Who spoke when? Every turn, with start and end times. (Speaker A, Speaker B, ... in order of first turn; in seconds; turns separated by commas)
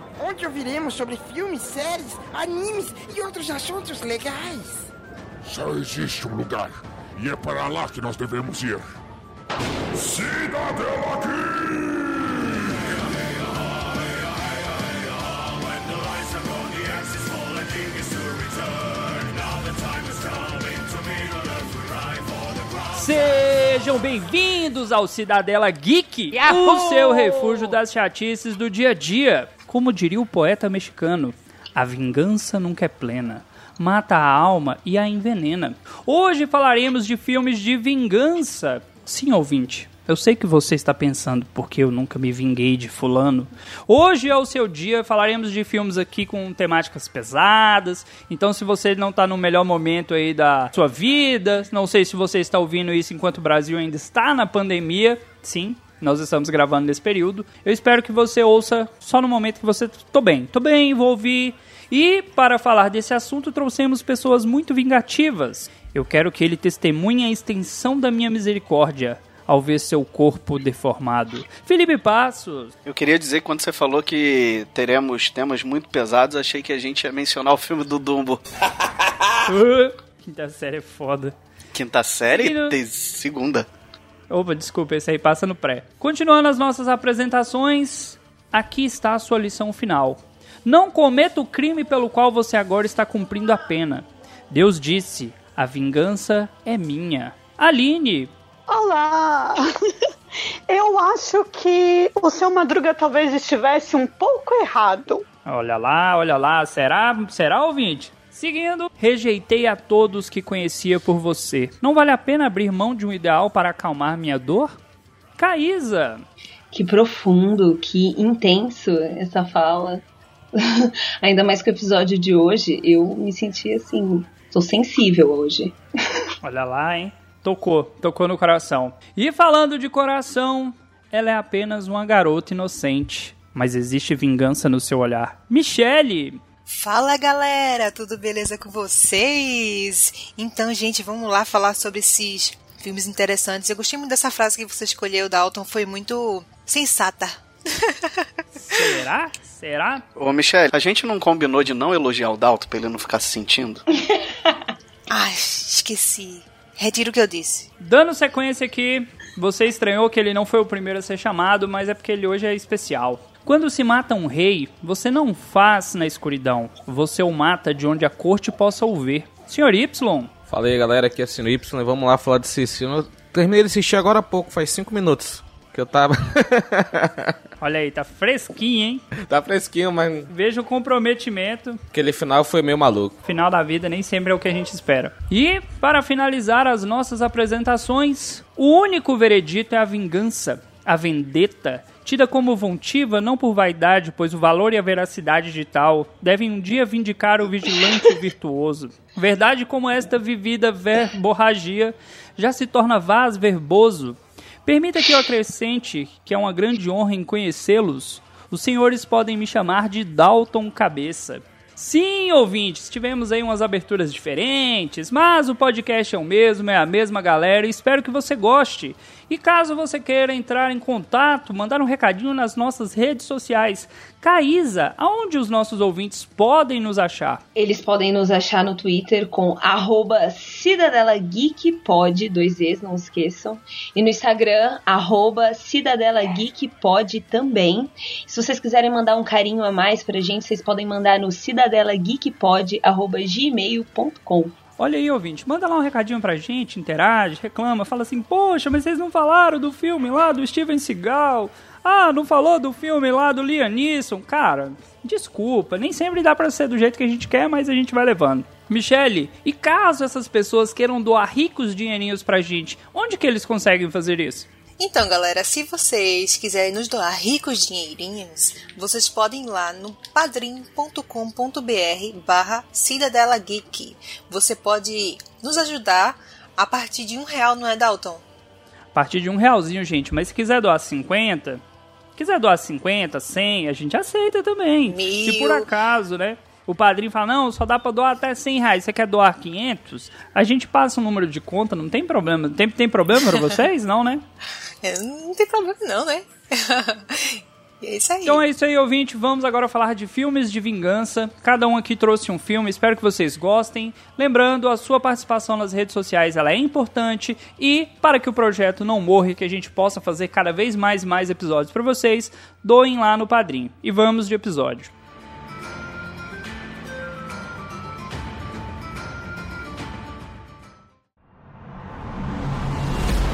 Speaker A: 0.2-4.9, Speaker B: 5.4-8.8, Speaker B: 9.9-12.3, Speaker C: 22.9-72.7, Speaker D: 72.8-78.4, Speaker C: 79.4-81.3, Speaker D: 81.7-83.7, Speaker C: 82.3-82.7, Speaker C: 84.3-98.3, Speaker E: 98.7-99.6, Speaker E: 100.7-105.2, Speaker C: 105.5-114.8, Speaker C: 115.4-116.2, Speaker F: 116.7-126.2, Speaker C: 126.4-136.4, Speaker G: 136.7-148.1, Speaker C: 148.6-150.0, Speaker D: 150.2-153.8, Speaker F: 154.1-154.6, Speaker G: 155.1-157.7, Speaker C: 157.8-170.3, Speaker H: 170.5-177.3, Speaker C: 177.6-179.0, Speaker H: 179.2-180.3, Speaker C: 180.3-181.8, Speaker H: 181.9-183.2, Speaker C: 183.2-227.4, Speaker F: 227.6-244.5, Speaker C: 244.8-264.5, Speaker G: 264.8-278.2, Speaker C: 278.9-281.6, Speaker C: 282.2-294.2, Speaker G: 284.9-285.7, Speaker G: 294.8-298.4, Speaker C: 298.2-314.9